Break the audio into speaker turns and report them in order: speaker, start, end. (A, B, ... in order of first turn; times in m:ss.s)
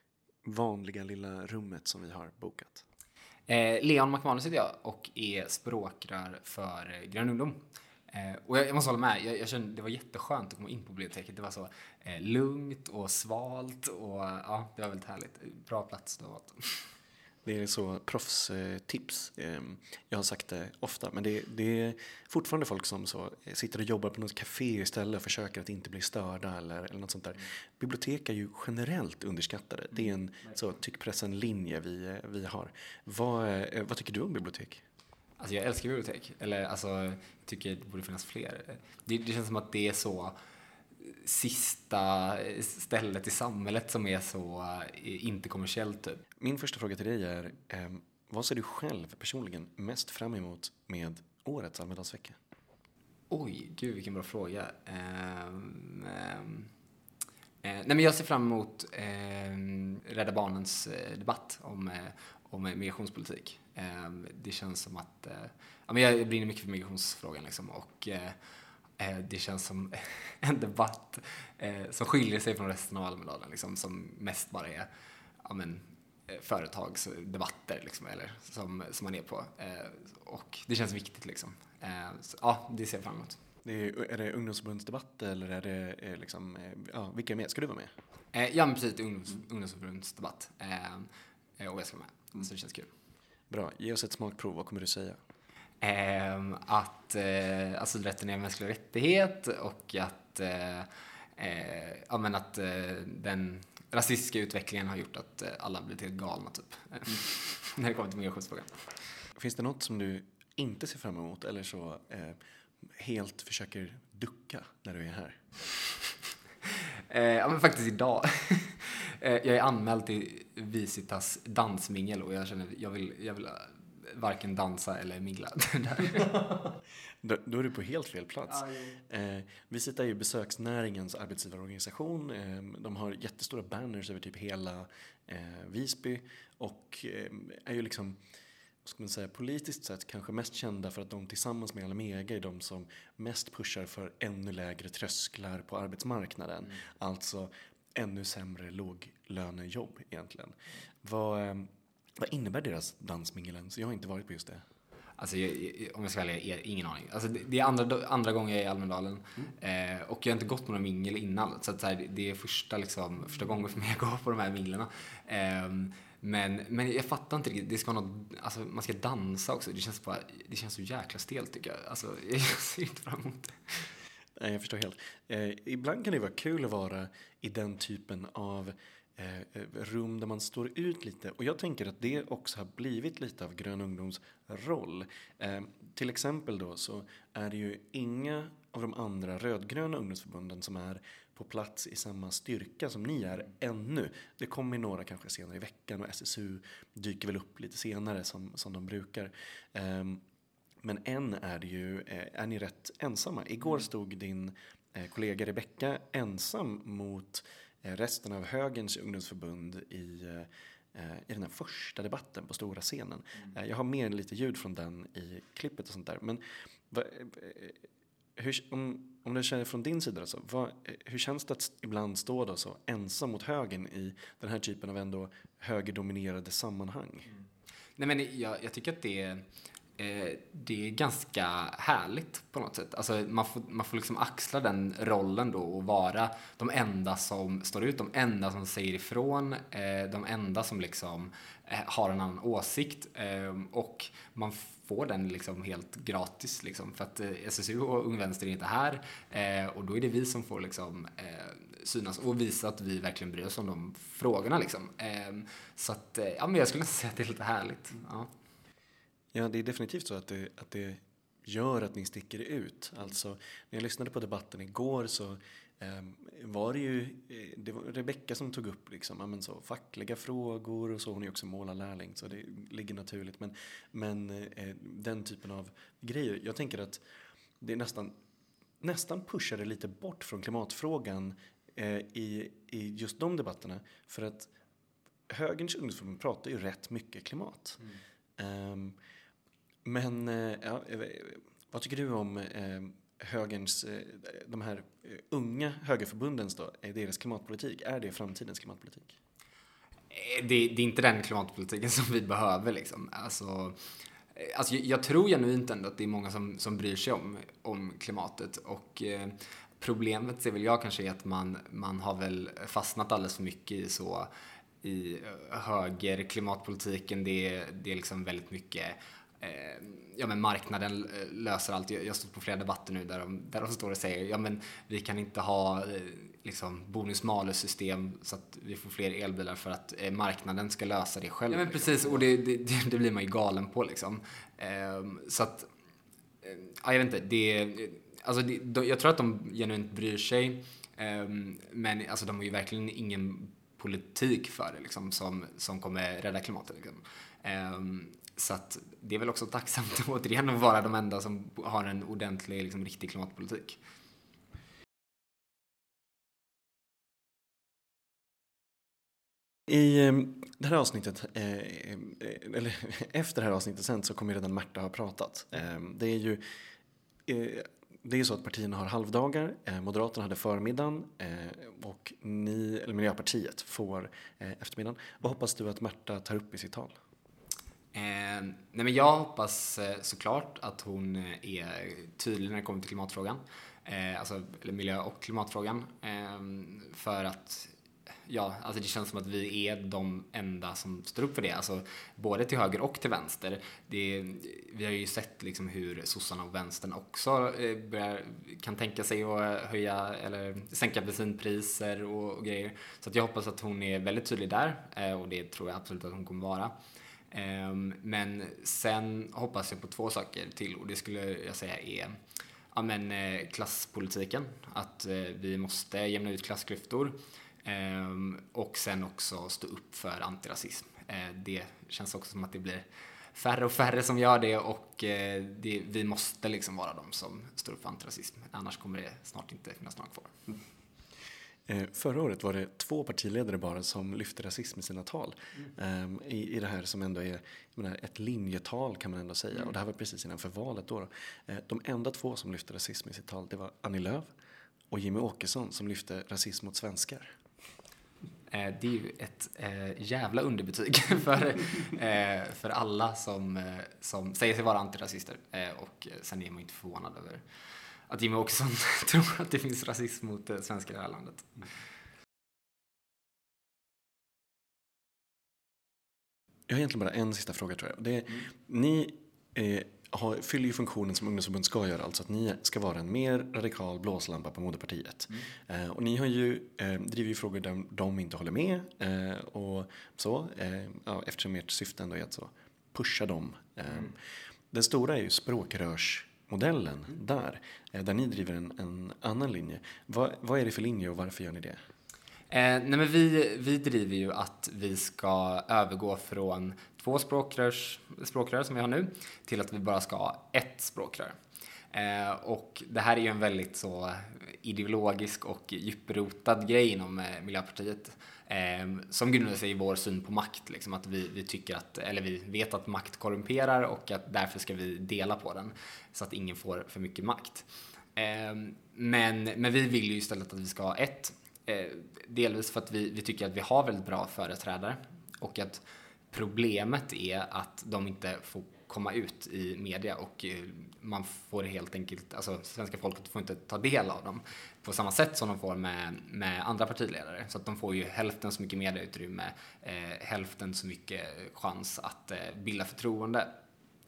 0:00.4-0:02.9 A
0:03.5-0:16.9 B
0:17.4-0:34.8 A
0:35.4-0:40.4 B
0:41.0-0:46.2 B
0:46.4-0:52.4 A
0:53.3-0:56.7 B
0:57.6-1:08.4 B
1:09.0-1:14.9 B
1:15.4-1:23.4 B
1:23.6-1:27.9 A
1:28.3-1:31.1 B
1:31.6-1:32.9 B
1:33.5-1:35.2 A
1:35.8-1:49.0 B
1:49.4-1:52.4 A
1:52.9-1:55.4 A
1:57.1-2:06.3 B
2:07.2-2:18.2 A
2:18.8-2:34.6 A
2:35.2-2:53.9 B
2:54.4-3:20.2 A
3:20.8-3:47.3 A
3:48.0-3:49.5 B
3:50.0-4:18.3 B
4:19.3-4:37.0 A
4:37.6-4:38.2 A
4:38.8-4:44.5 A
4:45.3-4:47.8 A
4:48.4-4:49.0 A
4:49.8-4:59.2 A
5:00.1-5:03.8 B
5:04.3-5:14.3 B
5:14.8-5:35.7 B
5:36.4-5:53.8 B
5:59.7-6:06.4 A
6:07.3-6:17.0 A
6:17.9-6:27.7 B
6:28.3-6:46.7 B
6:47.3-6:52.2 B
6:52.7-7:10.3 B
7:11.7-7:24.3 A
7:24.9-7:27.4 A
7:28.5-7:37.4 B
7:38.1-7:41.7 B
7:46.7-8:04.2 A
8:04.7-8:11.8 A
8:12.5-8:21.4 B
8:21.9-9:03.5 B